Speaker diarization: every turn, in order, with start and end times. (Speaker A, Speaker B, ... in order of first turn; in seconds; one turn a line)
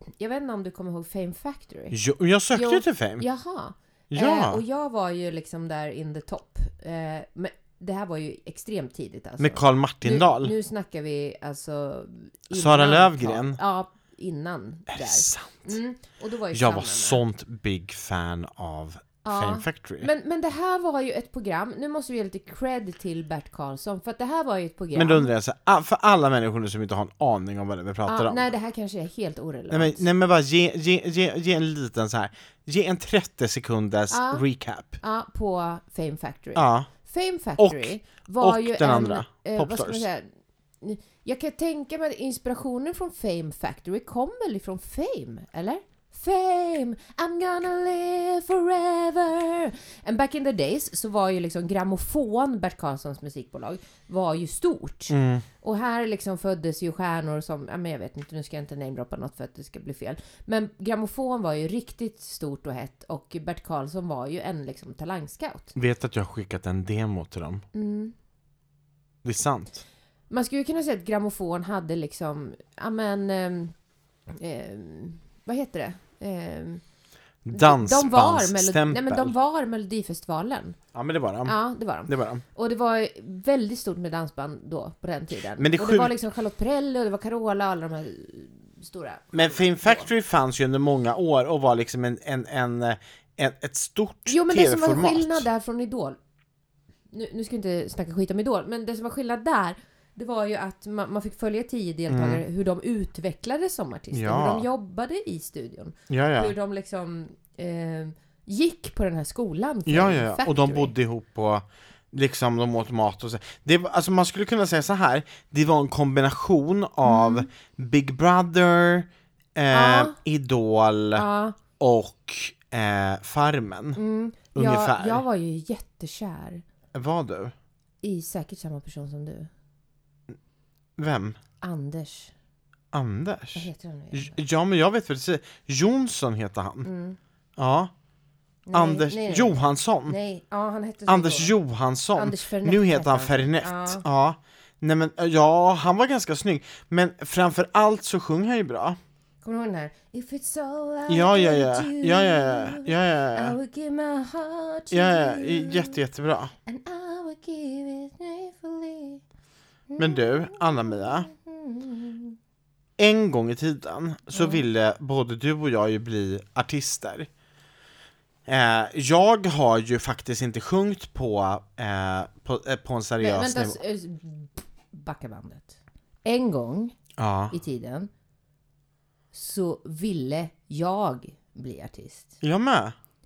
Speaker A: 0.2-1.9
Speaker B: 1.9-3.2
Speaker A: 2.5-17.2
Speaker B: 4.1-4.6
Speaker B: 9.4-10.5
Speaker B: 12.5-13.6
Speaker B: 14.9-15.7
Speaker B: 16.5-20.1
Speaker A: 19.2-25.3
Speaker B: 24.9-28.5
Speaker A: 28.1-30.0
Speaker B: 29.7-35.0
Speaker A: 34.1-34.4
Speaker A: 35.0-40.3
Speaker B: 36.5-36.9
Speaker B: 37.6-40.0
Speaker A: 40.8-65.7
Speaker B: 55.1-55.4
Speaker B: 65.7-67.6
Speaker A: 67.7-68.1
Speaker B: 69.2-69.8
Speaker A: 70.3-73.7
Speaker A: 74.3-76.8
Speaker B: 77.4-79.3
Speaker A: 77.5-80.8
Speaker B: 80.9-82.4
Speaker A: 81.4-90.1
Speaker B: 85.6-86.1
Speaker B: 89.3-95.4
Speaker A: 94.3-96.2
Speaker A: 97.1-110.9
Speaker B: 102.1-102.4
Speaker B: 104.1-104.7
Speaker B: 106.1-106.5
Speaker B: 109.9-121.2
Speaker A: 117.0-117.5
Speaker A: 119.7-120.2
Speaker A: 121.2-121.6
Speaker B: 121.8-124.0
Speaker A: 124.0-126.6
Speaker B: 124.5-125.2
Speaker B: 126.9-127.5
Speaker A: 128.0-129.5
Speaker B: 131.0-131.4
Speaker A: 131.6-132.3
Speaker B: 132.9-136.9
Speaker A: 133.6-134.4
Speaker A: 136.8-137.2
Speaker B: 137.6-137.9
Speaker A: 138.7-141.5
Speaker B: 138.7-140.2
Speaker B: 141.1-149.0
Speaker A: 142.2-144.0
Speaker A: 149.4-156.0
Speaker B: 151.1-153.6
Speaker B: 154.9-156.5
Speaker A: 156.7-159.2
Speaker A: 159.9-162.3
Speaker B: 160.0-161.3
Speaker B: 163.0-167.3
Speaker A: 164.3-164.6
Speaker B: 168.4-173.8
Speaker A: 173.2-177.0
Speaker B: 177.2-177.5
Speaker A: 177.5-178.1
Speaker A: 179.3-182.3
Speaker B: 182.4-182.9